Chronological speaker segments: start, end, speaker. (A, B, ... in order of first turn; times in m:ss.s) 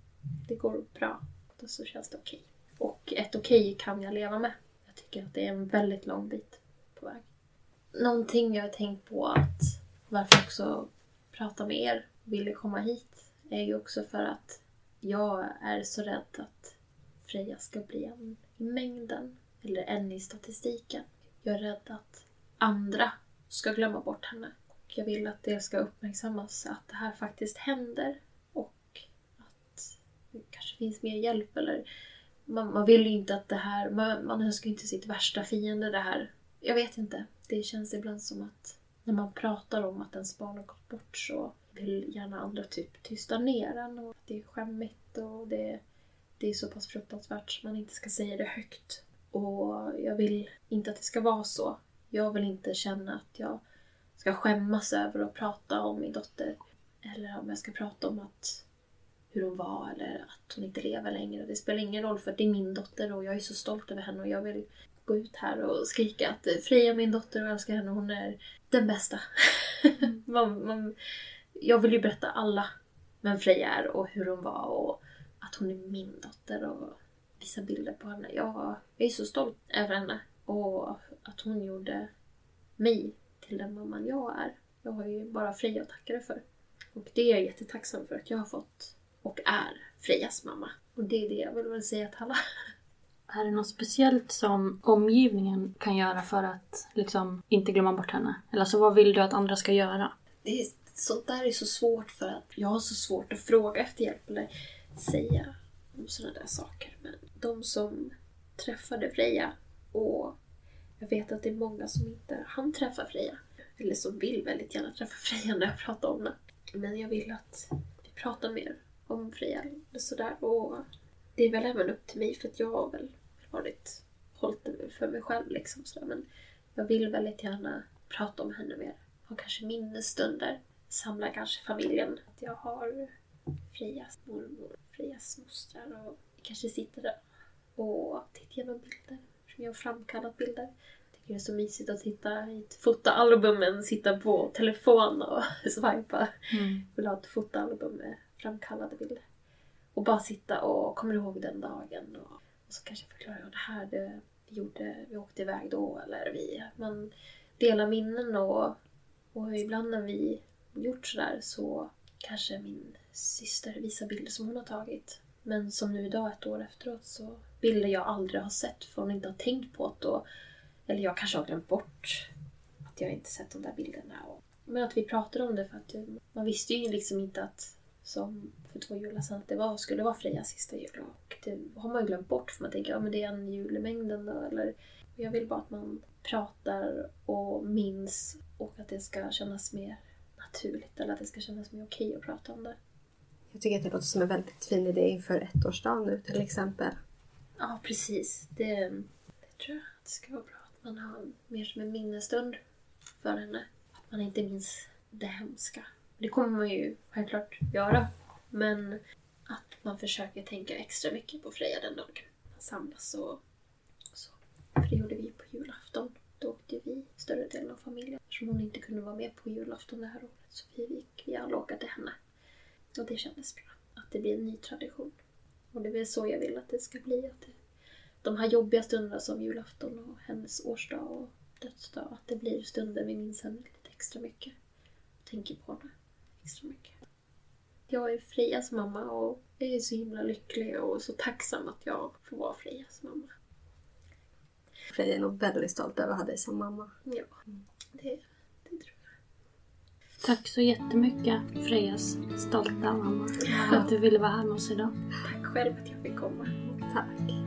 0:00.4-0:07.3 A
0:07.9-0:31.8 A
0:32.4-0:45.8 A
0:46.4-0:53.6 A
0:54.2-0:58.6 A
0:59.3-1:11.0 A
1:11.6-1:12.7 A
1:13.2-1:22.1 A
1:22.8-1:26.4 A
1:26.9-1:32.4 A
1:33.3-1:40.1 B
1:40.4-1:50.4 A
1:51.0-2:13.1 A
2:13.7-2:17.2 A
2:17.8-2:29.2 A
2:26.5-2:26.8 B
2:29.9-2:38.8 A
2:39.3-2:50.2 A
2:50.9-2:52.3 A
2:52.8-3:12.8 A
3:13.5-3:17.0 C
3:17.6-3:22.6 A
3:23.2-3:33.4 A
3:34.1-3:42.2 A
3:43.0-3:45.1 A
3:45.7-3:47.5 A
3:48.2-3:54.5 A
3:55.2-3:57.0 A
3:57.9-4:03.3 A
4:04.9-4:06.9 C
4:07.0-4:07.4 A
4:07.9-4:09.1 A
4:10.2-4:14.9 B
4:13.5-4:13.9 A
4:15.2-4:16.8 A
4:16.9-4:17.2 C